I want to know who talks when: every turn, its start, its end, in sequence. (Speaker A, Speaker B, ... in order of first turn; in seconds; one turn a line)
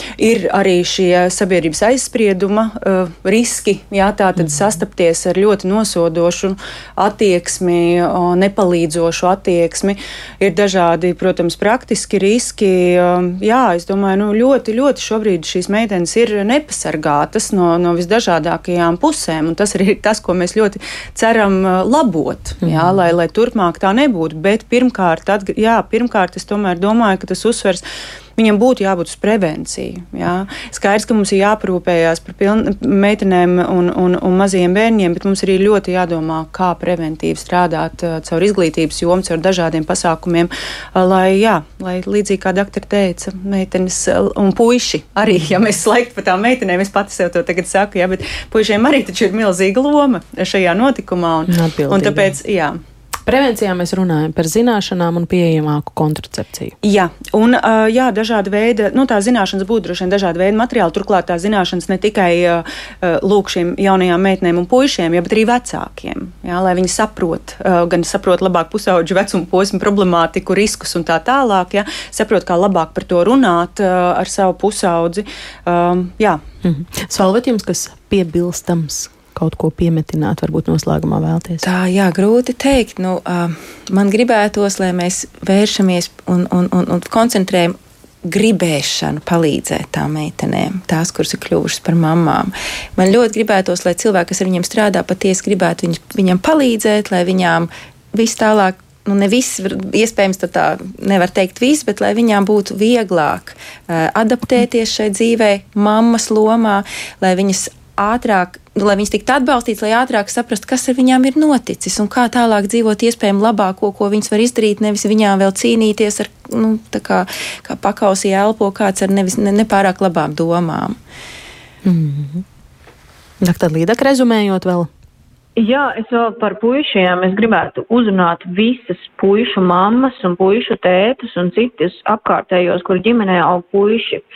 Speaker A: 0.2-27.8
Speaker A: 28.4-52.8
Speaker B: 51.5-52.4
Speaker B: 53.2-56.7
Speaker A: 56.8-76.4
Speaker B: 76.6-81.7
Speaker C: 81.6-121.0
Speaker B: 121.8-122.4
Speaker B: 123.4-124.9
Speaker D: 125.5-134.2